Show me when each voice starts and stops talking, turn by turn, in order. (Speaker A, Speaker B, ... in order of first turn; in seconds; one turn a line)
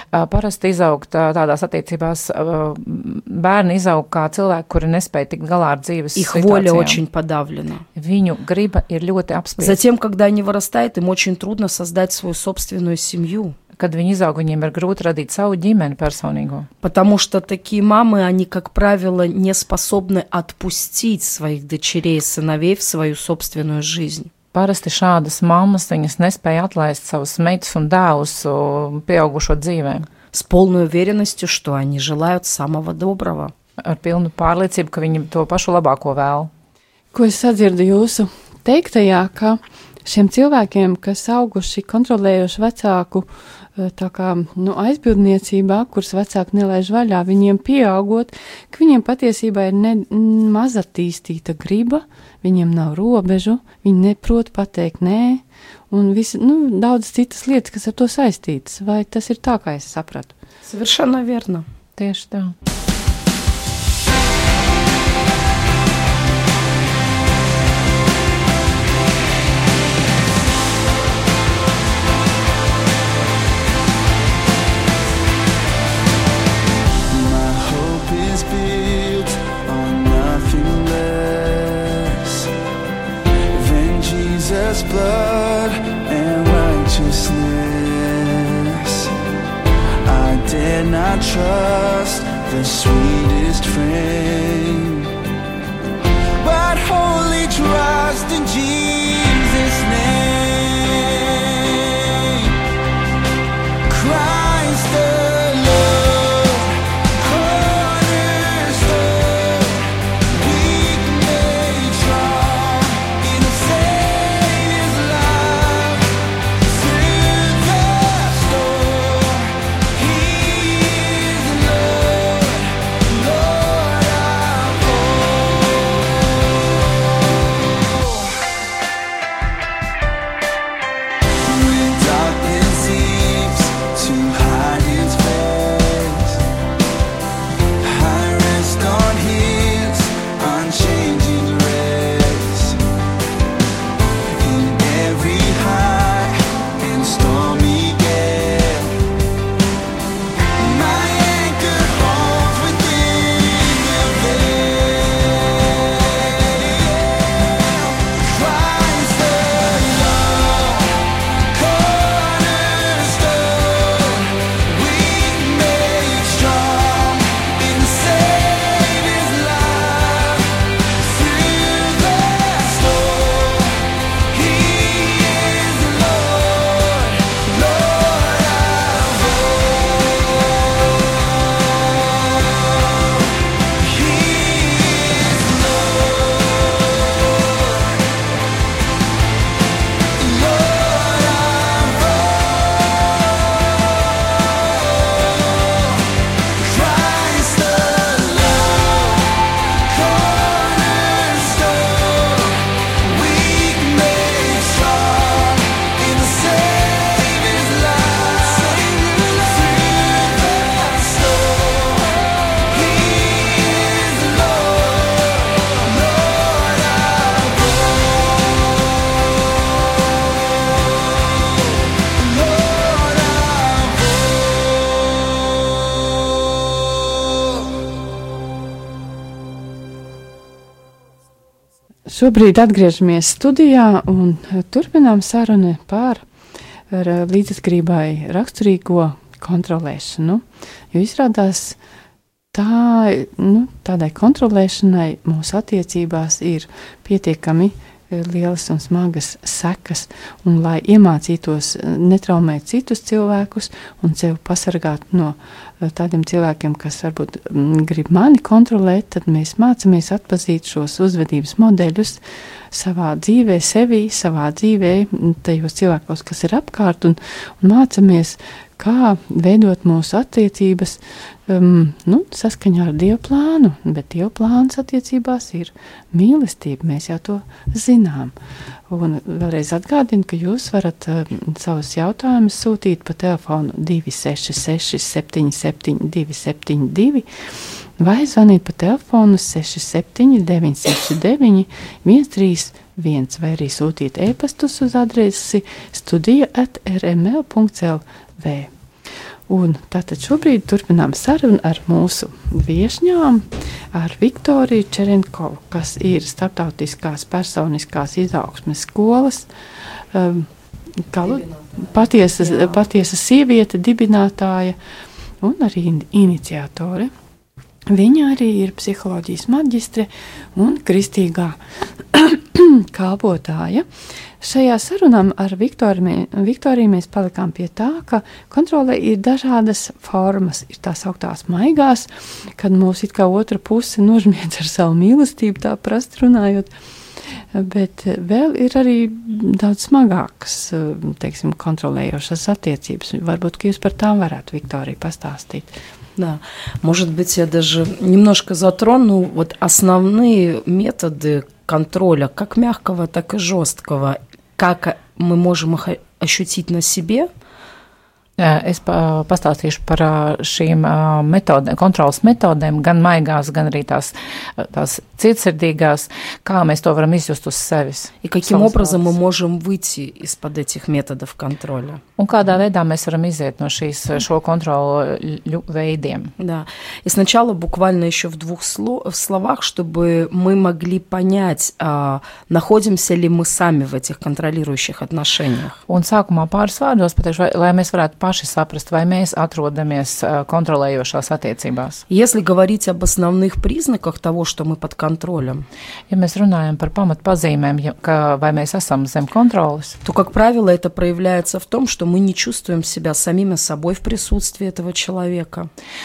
Speaker A: 0.1-7.0
Speaker B: 6.2-7.8
Speaker A: 8.0-9.8
Speaker B: 9.6-13.6
Speaker A: 13.8-16.7
Speaker B: 16.8-24.3
Speaker A: 24.5-30.1
Speaker B: 30.3-33.5
Speaker A: 33.8-36.5
Speaker C: 37.1-60.3
Speaker B: 60.6-61.7
Speaker A: 62.0-62.5
Speaker D: 77.1-82.5
Speaker D: 83.5-89.1
Speaker D: 90.0-95.1
Speaker D: 96.4-102.6
Speaker D: 103.9-126.5
Speaker D: 127.9-128.3
Speaker D: 131.4-136.4
Speaker D: 137.8-142.8
Speaker D: 144.3-149.0
Speaker D: 150.6-188.0
Speaker D: 190.2-218.6
Speaker D: 220.7-224.8
Speaker C: 232.1-236.2
Speaker C: 236.9-241.8
Speaker C: 242.5-278.3
Speaker C: 278.9-287.3
Speaker C: 288.0-298.7
Speaker C: 299.5-309.5
Speaker C: 310.1-310.5
Speaker C: 311.1-314.8
Speaker B: 311.3-311.9
Speaker B: 312.4-312.8
Speaker C: 315.4-317.1
Speaker C: 317.9-321.6
Speaker C: 322.1-323.9
Speaker C: 324.4-336.7
Speaker C: 337.5-345.7
Speaker B: 346.2-357.3
Speaker A: 358.4-369.1
Speaker B: 368.2-372.0
Speaker A: 372.2-376.3
Speaker B: 376.4-385.8
Speaker A: 385.9-392.0
Speaker B: 392.1-395.7
Speaker A: 396.1-400.0
Speaker B: 400.0-405.7